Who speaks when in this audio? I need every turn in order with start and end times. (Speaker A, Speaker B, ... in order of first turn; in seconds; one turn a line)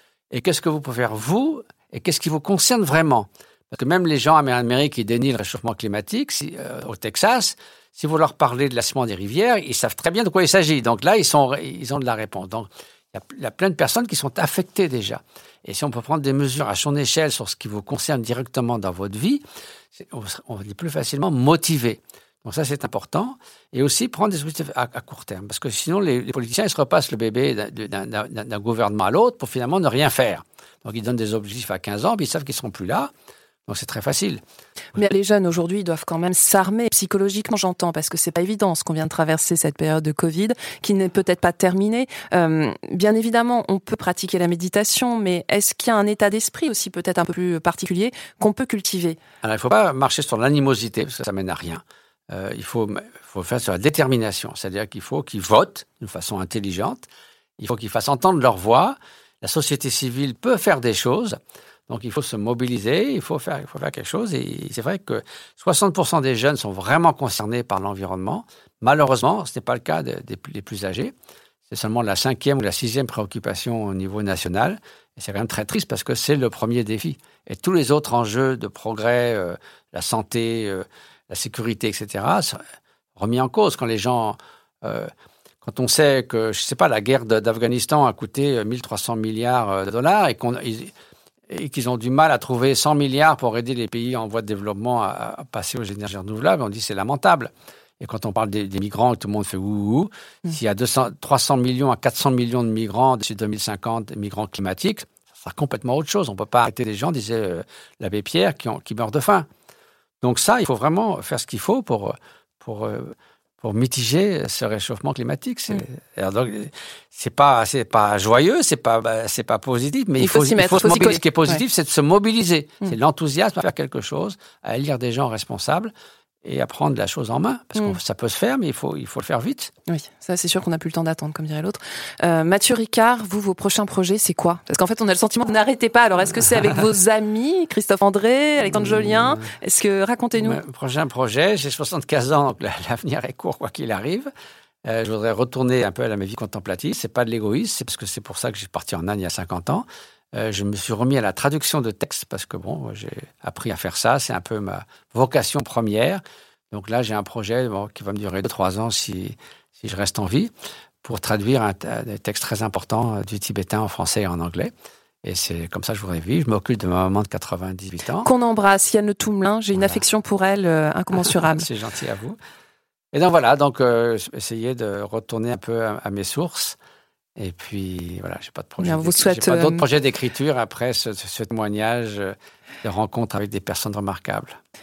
Speaker A: 0.3-19.4
Speaker A: 19.9-33.1
Speaker A: 33.7-34.4
Speaker B: 34.9-49.2
Speaker A: 49.4-57.0
Speaker A: 57.6-61.4
Speaker A: 61.9-71.1
Speaker A: 71.7-82.6
Speaker A: 83.2-85.1
Speaker A: 85.6-90.9
Speaker A: 91.5-109.5
Speaker A: 110.2-125.9
Speaker B: 120.2-121.6
Speaker A: 126.4-129.7
Speaker B: 129.9-140.6
Speaker A: 138.7-139.5
Speaker A: 140.4-144.3
Speaker A: 144.8-160.5
Speaker A: 161.0-164.7
Speaker A: 165.2-168.3
Speaker B: 168.2-171.7
Speaker A: 171.2-172.4
Speaker A: 173.1-176.8
Speaker A: 177.3-184.6
Speaker B: 178.8-179.8